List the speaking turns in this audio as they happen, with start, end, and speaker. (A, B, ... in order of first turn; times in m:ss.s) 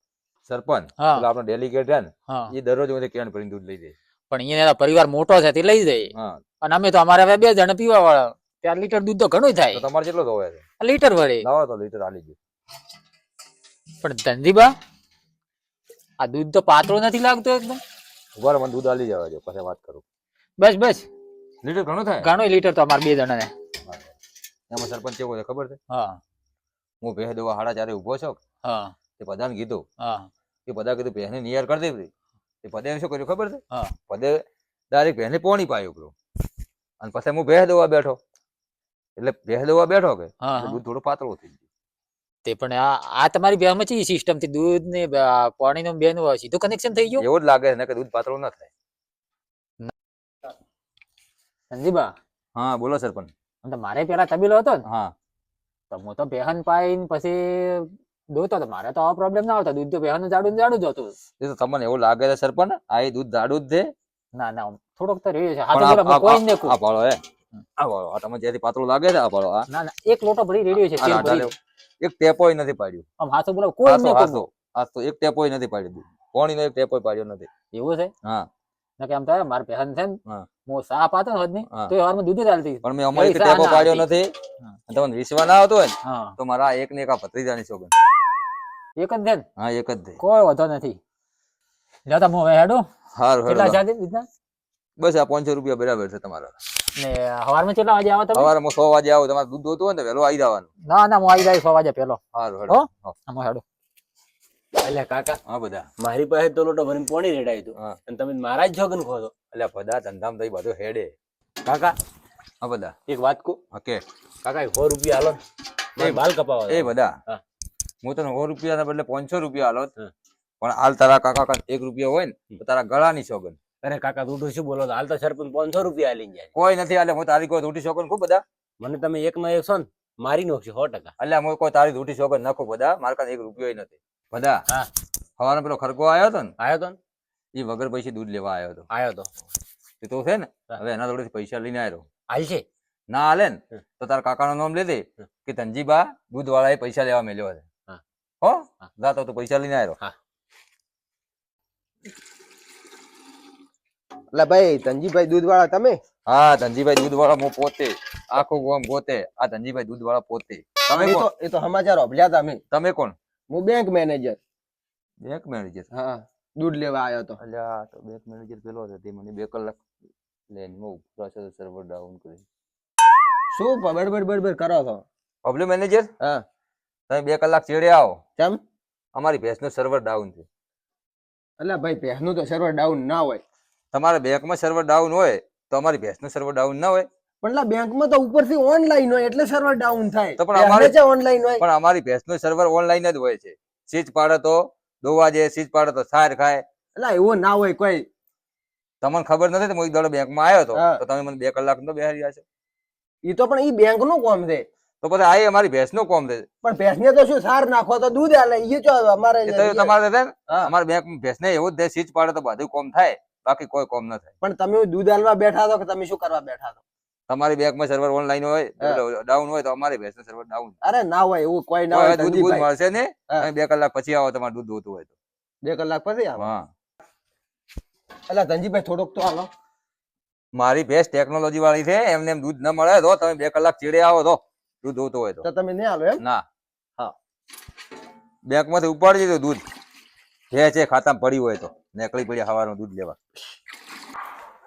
0:00.5-0:03.9 A
0:01.0-0:01.3 B
0:02.3-0:02.5 B
0:04.3-0:09.8 B
0:06.1-0:06.4 A
0:09.7-0:10.6 A
0:10.8-0:11.5 B
0:11.4-0:12.4 A
0:14.0-0:14.7 B
0:16.2-0:17.8 B
0:18.4-0:20.0 A
0:20.6-0:21.1 B
0:21.6-0:22.3 A
0:22.2-0:23.5 B
0:24.7-0:25.8 A
0:25.9-0:26.2 B
0:27.0-0:28.4 A
0:28.6-0:28.9 B
0:29.2-0:29.8 A
0:30.0-0:30.3 B
0:30.7-0:32.1 A
0:32.6-0:34.4 A
0:34.9-0:36.1 A
0:37.0-0:38.2 A
0:39.2-0:41.6 A
0:40.4-0:40.8 B
0:42.4-0:47.2 B
0:47.2-0:48.7 A
0:51.7-0:52.2 B
0:52.5-0:53.3 A
0:53.6-0:54.8 B
0:54.9-0:55.1 A
0:55.9-1:01.1 B
1:01.4-1:03.9 A
1:04.3-1:06.8 B
1:05.7-1:07.2 A
1:07.8-1:09.7 A
1:09.7-1:11.5 B
1:10.7-1:13.0 A
1:13.2-1:14.5 B
1:13.8-1:17.5 A
1:17.7-1:18.1 B
1:19.0-1:24.1 B
1:22.8-1:24.3 A
1:24.9-1:27.9 A
1:26.0-1:26.4 B
1:29.0-1:29.4 B
1:29.6-1:30.2 A
1:30.2-1:31.0 B
1:32.0-1:32.9 B
1:33.2-1:33.8 A
1:33.4-1:34.3 B
1:35.0-1:36.5 A
1:37.0-1:38.5 B
1:38.3-1:40.7 A
1:40.9-1:43.6 B
1:42.3-1:43.2 A
1:44.8-1:45.4 C
1:45.4-1:45.9 A
1:46.0-1:49.3 C
1:49.5-1:51.1 A
1:51.6-1:51.9 C
1:52.6-1:52.9 A
1:53.1-1:53.6 C
1:53.7-1:54.0 A
1:54.4-1:55.4 C
1:56.0-1:57.4 C
1:56.0-1:57.1 A
1:58.0-1:59.9 A
2:00.6-2:03.6 A
2:03.8-2:06.5 C
2:06.6-2:08.4 A
2:08.8-2:11.1 C
2:11.2-2:14.6 A
2:15.4-2:16.5 A
2:16.6-2:17.0 C
2:17.5-2:18.8 A
2:18.9-2:19.3 C
2:20.0-2:22.0 A
2:22.3-2:22.6 C
2:23.1-2:27.6 A
2:28.4-2:30.0 A
2:34.3-2:36.0 D
2:36.3-2:41.3 A
2:40.9-2:42.6 D
2:42.7-2:43.1 A
2:43.5-2:44.4 D
2:45.2-2:45.9 A
2:45.9-2:47.4 D
2:47.4-2:49.8 A
2:50.5-2:52.4 A
2:53.5-2:55.0 D
2:55.4-2:56.1 A
2:57.1-2:58.2 A
2:59.2-3:00.4 A
3:01.6-3:03.4 D
3:03.9-3:07.1 A
3:07.4-3:11.6 D
3:10.4-3:11.0 A
3:11.6-3:16.6 A
3:17.0-3:18.0 D
3:19.0-3:22.4 A
3:20.7-3:21.0 D
3:23.2-3:24.6 D
3:25.0-3:26.5 A
3:26.6-3:29.9 D
3:29.5-3:34.3 A
3:34.4-3:36.8 D
3:37.3-3:40.8 A
3:40.8-3:42.7 D
3:41.9-3:45.1 A
3:45.6-3:46.4 D
3:46.4-3:46.7 A
3:48.3-3:49.5 D
3:50.5-3:55.4 A
3:55.4-3:56.2 D
3:58.5-3:59.6 A
4:00.5-4:03.2 A